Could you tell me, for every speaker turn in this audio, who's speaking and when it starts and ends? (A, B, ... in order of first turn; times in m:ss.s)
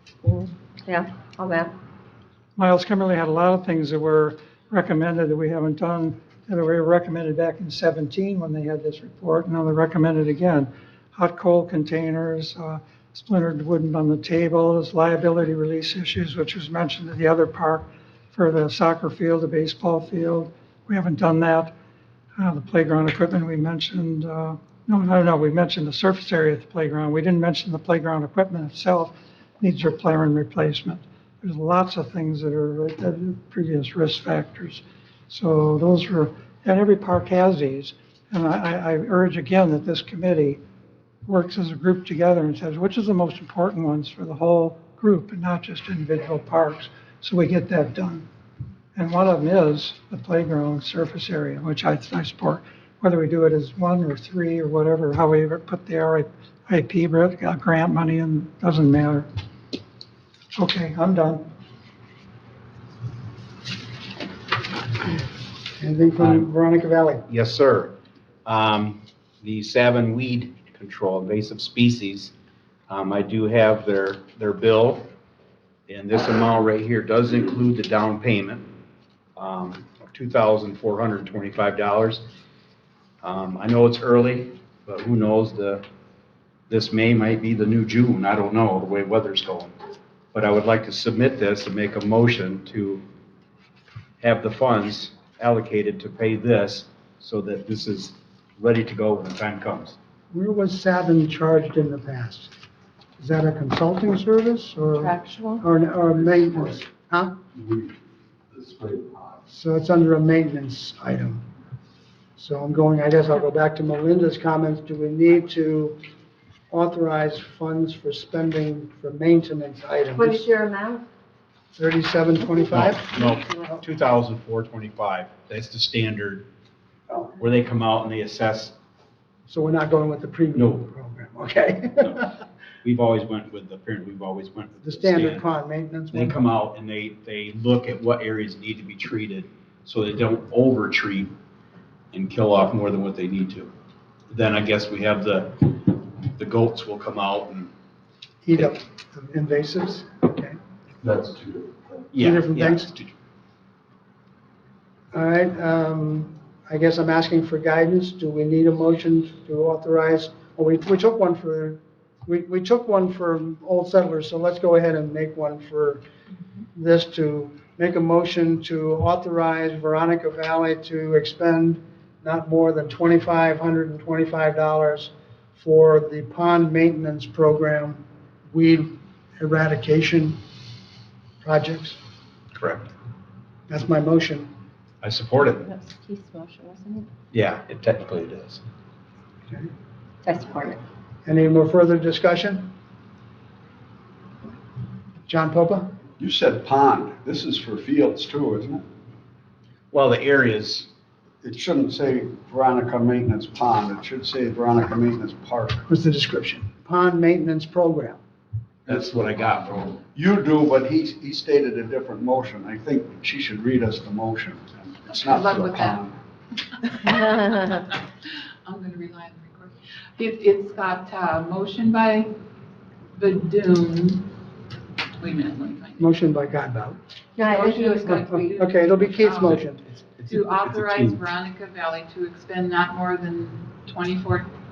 0:00.2-0:01.7 A
0:02.6-0:21.7 B
0:22.4-0:40.6 B
0:41.3-0:48.3 B
0:49.0-0:59.3 B
1:00.5-1:01.4 B
1:05.8-1:07.2 C
1:07.3-1:12.3 D
1:12.9-1:15.1 D
1:15.9-1:18.7 D
1:19.4-1:22.2 D
1:23.2-1:25.8 D
1:26.7-1:29.7 D
1:30.3-1:33.0 D
1:34.2-1:40.0 D
1:40.3-1:42.5 C
1:43.2-1:47.4 C
1:45.0-1:45.6 E
1:49.5-1:51.4 C
1:52.4-1:56.0 C
1:56.7-2:00.5 C
2:00.2-2:01.0 A
2:01.8-2:03.8 C
2:02.7-2:06.5 D
2:03.2-2:03.7 A
2:07.4-2:08.8 D
2:09.5-2:12.3 C
2:10.6-2:10.8 D
2:12.8-2:15.5 D
2:14.8-2:16.5 C
2:16.1-2:21.3 D
2:22.1-2:23.7 D
2:24.3-2:27.7 D
2:28.4-2:30.6 C
2:32.1-2:33.1 D
2:32.1-2:32.9 C
2:35.1-2:46.0 C
2:46.8-3:00.4 C
3:01.4-3:02.0 C
3:02.6-3:02.9 D
3:03.7-3:04.5 C
3:05.0-3:05.7 D
3:05.5-3:07.1 A
3:07.3-3:08.6 D
3:10.2-3:10.8 A
3:11.2-3:12.7 C
3:15.3-3:15.9 C
3:16.2-3:18.8 F
3:19.9-3:20.9 D
3:21.4-3:25.9 F
3:25.9-3:28.2 C
3:28.9-3:36.2 F
3:28.9-3:30.0 D
3:35.2-3:36.0 E
3:37.0-3:38.1 E
3:38.6-3:42.3 E
3:43.2-3:44.3 E
3:45.2-3:46.1 E
3:46.0-3:47.0 C
3:47.4-3:48.3 A
3:47.4-3:49.7 E
3:47.8-3:49.8 C
3:49.4-3:51.2 D
3:50.3-3:54.5 E